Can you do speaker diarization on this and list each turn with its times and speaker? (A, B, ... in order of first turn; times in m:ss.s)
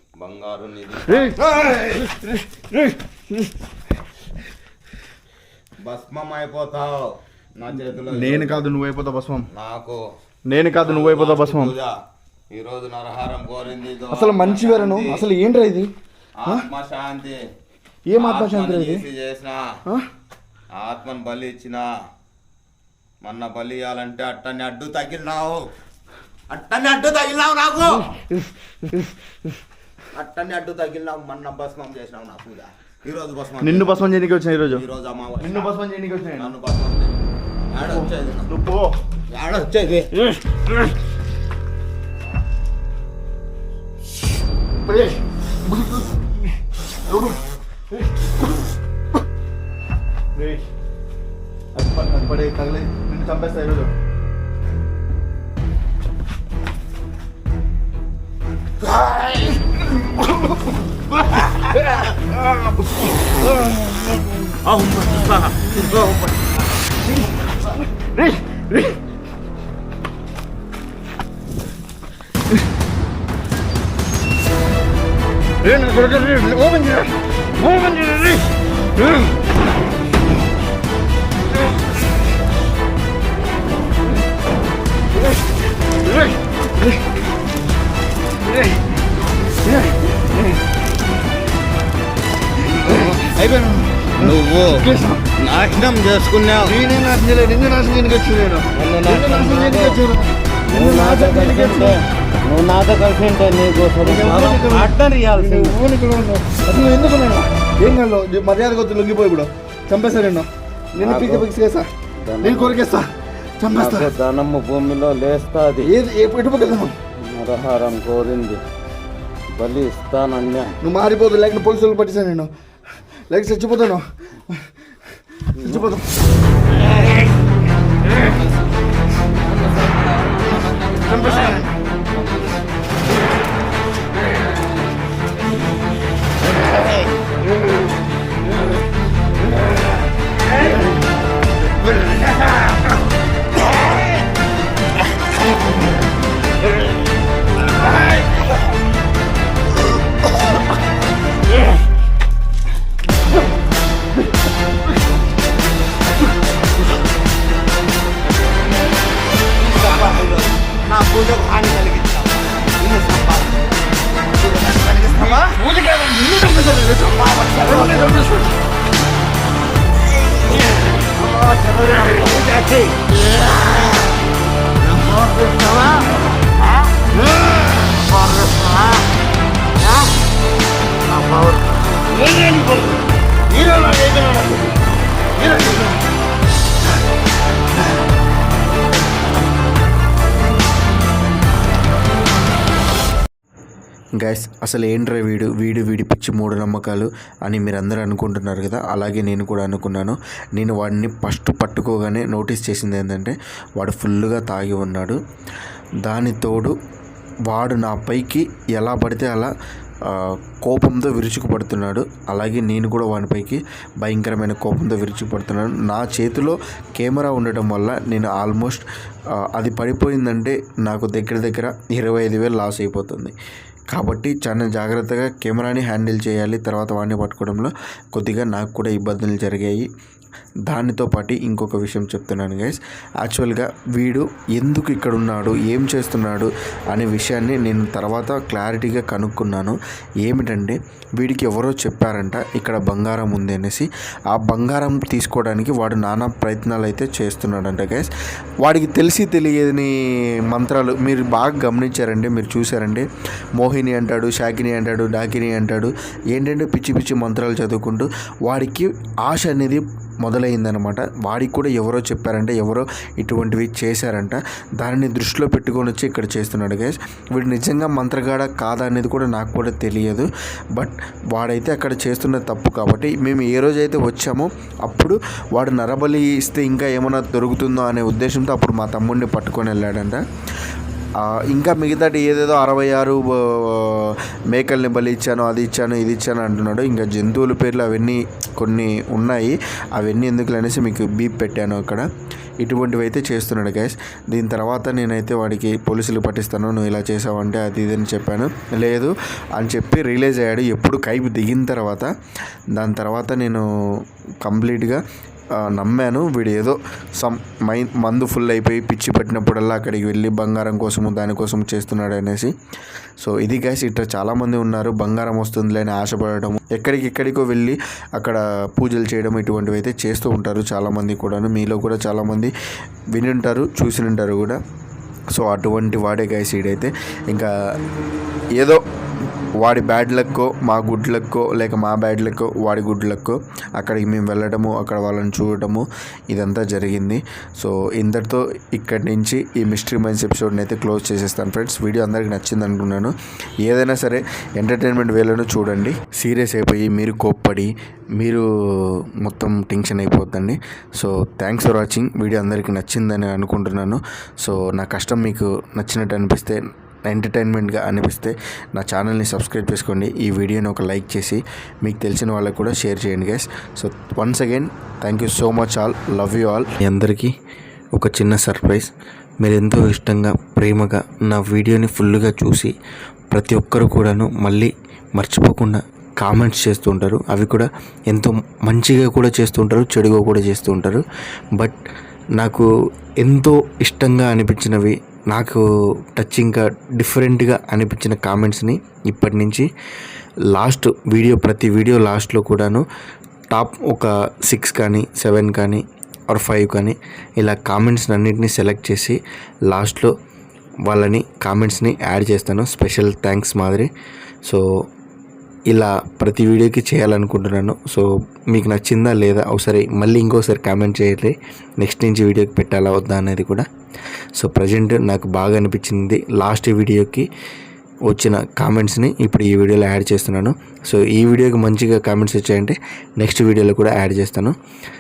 0:00.2-0:02.1 A
0:01.1-0:03.5 B
0:05.8-0:08.7 A
0:07.9-0:09.5 B
0:09.5-0:10.0 A
0:10.5-0:11.8 B
0:10.8-0:11.9 A
0:12.5-0:15.2 A
0:14.1-0:15.9 B
0:16.4-0:17.4 A
0:18.1-0:19.1 B
0:18.2-0:19.6 A
0:20.8-0:21.9 A
0:23.2-0:25.6 A
0:26.5-0:28.1 A
0:28.0-0:29.1 B
0:30.1-0:34.2 A
0:33.6-0:34.8 B
0:34.7-0:35.8 A
0:35.4-0:36.6 B
0:36.4-0:37.2 A
0:37.7-0:38.5 A
0:37.8-0:39.0 B
0:39.3-0:40.1 A
0:40.2-0:40.6 B
0:44.8-0:46.2 B
0:47.0-0:47.4 B
0:48.2-0:48.6 B
0:50.4-0:50.6 B
0:51.7-0:53.9 B
1:02.0-1:03.7 B
1:04.6-1:06.5 A
1:05.7-1:06.1 B
1:07.1-1:09.0 B
1:15.6-1:19.3 B
1:26.0-1:27.0 B
1:28.5-1:28.7 B
1:29.6-1:30.6 B
1:32.6-1:35.2 B
1:32.8-1:33.3 A
1:34.2-1:34.8 A
1:35.4-1:36.7 A
1:36.6-1:42.0 B
1:38.7-1:40.0 A
1:40.7-1:45.8 A
1:44.0-1:51.9 B
1:51.0-1:51.5 A
1:52.2-1:52.8 A
1:52.4-1:54.1 B
1:53.7-1:55.9 A
1:55.8-1:57.0 B
1:57.2-1:58.6 A
1:59.5-2:00.8 A
2:00.8-2:02.5 B
2:03.3-2:04.9 B
2:05.4-2:06.1 B
2:09.4-2:12.5 A
2:11.1-2:11.7 B
2:39.6-2:43.6 A
2:44.3-2:45.4 A
2:45.1-2:48.5 B
2:47.2-2:48.2 A
2:51.8-2:52.5 B
3:03.7-3:04.0 B
3:14.2-3:25.2 C
3:26.0-3:26.7 C
3:27.5-3:29.5 C
3:30.0-3:38.8 C
3:39.5-3:43.3 C
3:43.9-3:49.9 C
3:50.7-4:08.1 C
4:08.6-4:09.9 C
4:10.5-4:13.1 C
4:13.6-4:40.2 C
4:41.2-4:52.1 C
4:52.6-5:02.1 C
5:02.8-5:03.7 C
5:04.4-5:05.0 C
5:05.7-5:12.5 C
5:13.2-5:22.5 C
5:23.1-5:24.6 C
5:25.3-5:27.5 C
5:28.6-5:28.8 C
5:29.6-5:43.1 C
5:43.6-6:07.3 C
6:08.0-6:08.9 C
6:09.4-6:12.7 C
6:13.3-6:21.0 C
6:22.4-6:22.7 C
6:23.2-6:25.6 C
6:26.2-6:29.7 C
6:30.5-6:32.8 C
6:33.5-6:39.2 C
6:39.7-6:40.1 C
6:40.9-6:43.9 C
6:45.7-6:53.7 C
6:54.4-6:57.3 C
6:58.1-7:04.5 C